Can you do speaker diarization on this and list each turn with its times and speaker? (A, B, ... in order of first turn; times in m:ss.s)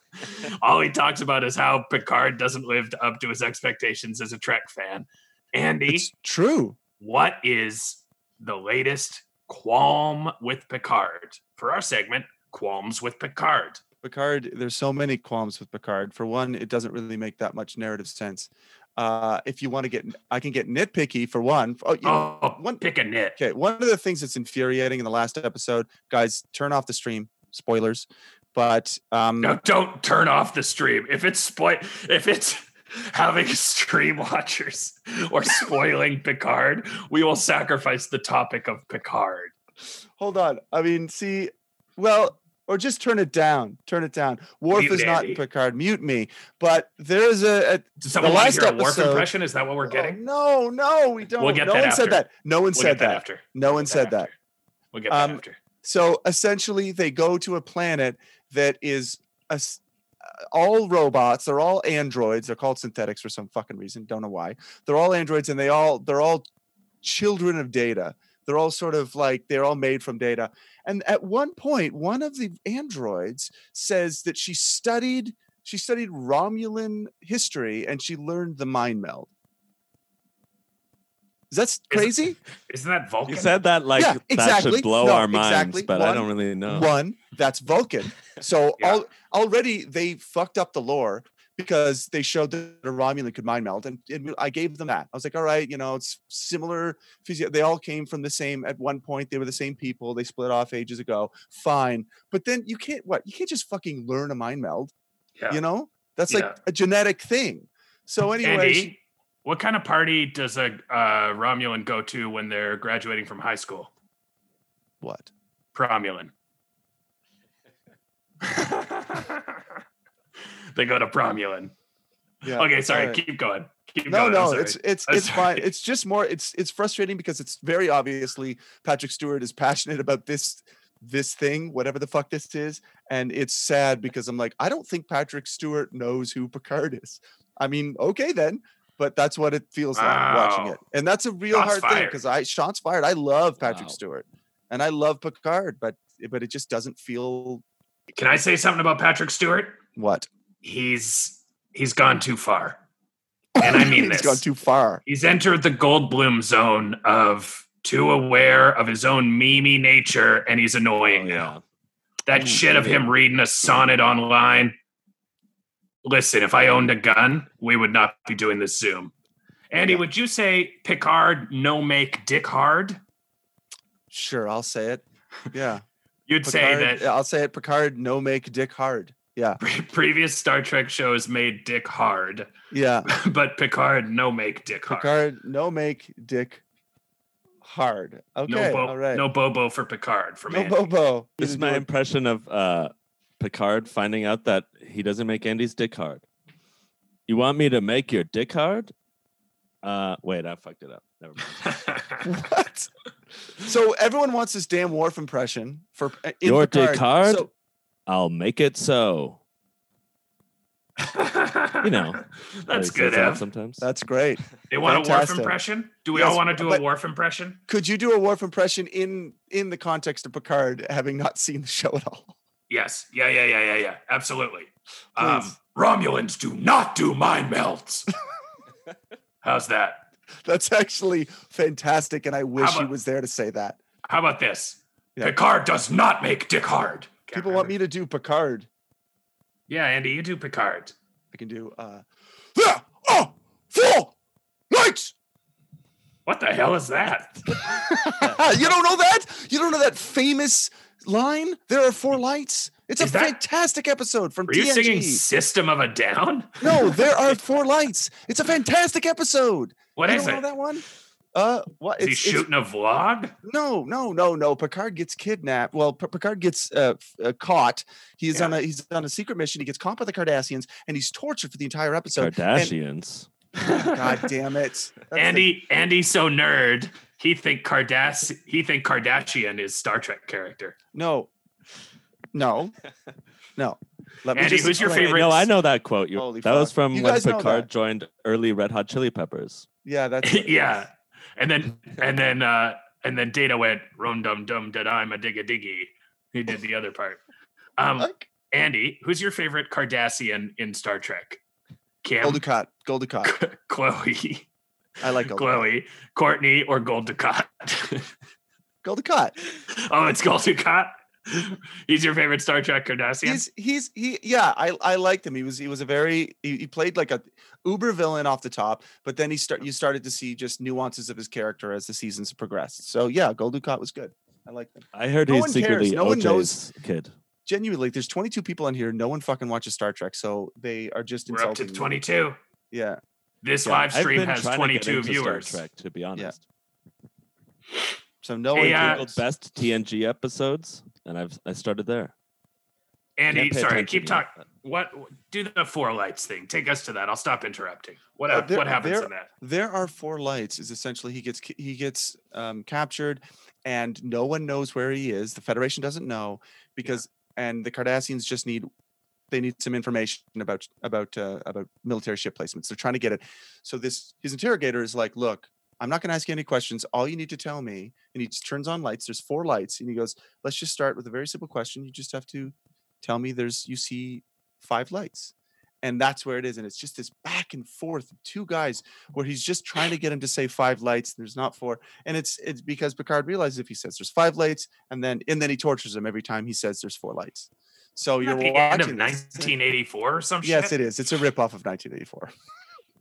0:00.2-0:06.1 A
0:05.9-0:06.8 B
0:07.0-0:13.8 A
0:14.0-0:22.8 B
0:22.0-0:23.4 A
0:23.4-0:29.6 B
0:29.4-0:39.5 A
0:40.2-0:49.3 B
0:44.7-0:45.4 A
0:48.0-0:50.2 A
0:49.8-0:54.3 B
0:51.4-0:54.3 A
0:54.9-0:55.6 A
0:55.1-0:59.8 B
1:00.5-1:06.4 B
1:07.0-1:19.3 B
1:21.5-1:22.4 B
1:21.9-1:22.2 A
1:22.7-1:23.6 A
1:23.3-1:26.9 C
1:24.0-1:44.9 B
1:45.4-1:45.6 A
1:45.5-1:49.0 B
1:46.3-1:46.6 A
1:48.4-1:53.9 A
1:55.0-1:55.3 B
1:55.8-1:56.3 A
1:58.4-1:59.6 A
2:00.8-2:01.7 A
2:02.4-2:03.2 B
2:02.5-2:05.7 A
2:04.1-2:27.6 B
2:20.0-2:20.8 A
2:21.5-2:22.2 A
2:23.6-2:24.0 C
2:28.2-2:29.8 A
2:30.0-2:30.3 B
2:30.6-2:32.8 A
2:33.6-2:35.0 B
2:33.6-2:34.4 A
2:35.1-2:41.5 A
2:41.0-2:41.6 C
2:42.3-2:44.8 A
2:42.4-2:42.9 B
2:42.6-2:42.9 C
2:46.0-2:49.1 A
2:49.7-2:53.0 A
2:54.1-2:55.8 B
2:56.3-2:57.1 A
2:56.4-2:59.6 B
2:59.6-3:02.5 A
3:02.7-3:03.1 B
3:03.1-3:05.1 A
3:04.9-3:06.6 B
3:07.6-3:09.3 B
3:08.5-3:10.8 A
3:10.5-3:11.9 B
3:11.4-3:16.2 C
3:17.3-3:18.9 C
3:19.8-3:22.0 C
3:21.7-3:22.2 A
3:22.2-3:22.9 B
3:23.6-3:27.5 B
3:26.4-3:27.5 C
3:28.1-3:29.4 C
3:31.0-3:33.4 A
3:31.8-3:33.9 C
3:33.8-3:35.6 B
3:34.7-3:37.6 A
3:36.1-3:36.8 B
3:37.7-3:42.4 B
3:42.7-3:48.1 A
3:45.2-3:45.6 B
3:49.4-3:50.0 A
3:50.4-3:53.8 B
3:52.6-3:52.9 A
3:54.1-3:57.8 A
3:57.3-3:58.7 B
3:59.7-4:01.0 A
4:01.3-4:04.1 B
4:04.7-4:05.1 B
4:06.3-4:07.3 A
4:07.6-4:15.2 B
4:08.2-4:08.5 C
4:13.0-4:13.4 A
4:14.5-4:17.3 A
4:16.6-4:22.5 B
4:20.0-4:20.5 A
4:22.0-4:23.3 A
4:23.4-4:32.8 B
4:32.2-4:33.3 C
4:33.6-4:34.3 A
4:33.7-4:35.5 B
4:35.1-4:40.8 A
4:40.9-4:41.3 B
4:42.3-4:42.8 B
4:43.6-4:45.2 B
4:44.4-4:45.5 A
4:44.8-4:49.7 C
4:46.2-4:47.7 B
4:49.8-4:50.8 B
4:50.2-4:57.2 A
4:57.8-5:01.4 A
4:58.0-4:58.3 B
5:02.0-5:02.4 A
5:02.2-5:03.3 B
5:03.2-5:04.5 A
5:05.0-5:05.6 B
5:05.3-5:08.1 A
5:08.8-5:09.4 B
5:09.7-5:13.4 A
5:13.2-5:26.6 B
5:24.9-5:27.1 C
5:27.5-5:32.0 B
5:31.3-5:32.4 A
5:32.7-5:33.0 B
5:33.4-5:35.6 A
5:33.7-5:36.4 C
5:38.2-5:39.2 B
5:38.6-5:39.0 A
5:38.6-5:42.1 C
5:43.2-5:49.3 A
5:43.3-5:44.4 C
5:48.3-5:58.7 B
5:59.3-6:29.6 B
6:28.2-6:30.8 A
6:30.4-6:32.3 B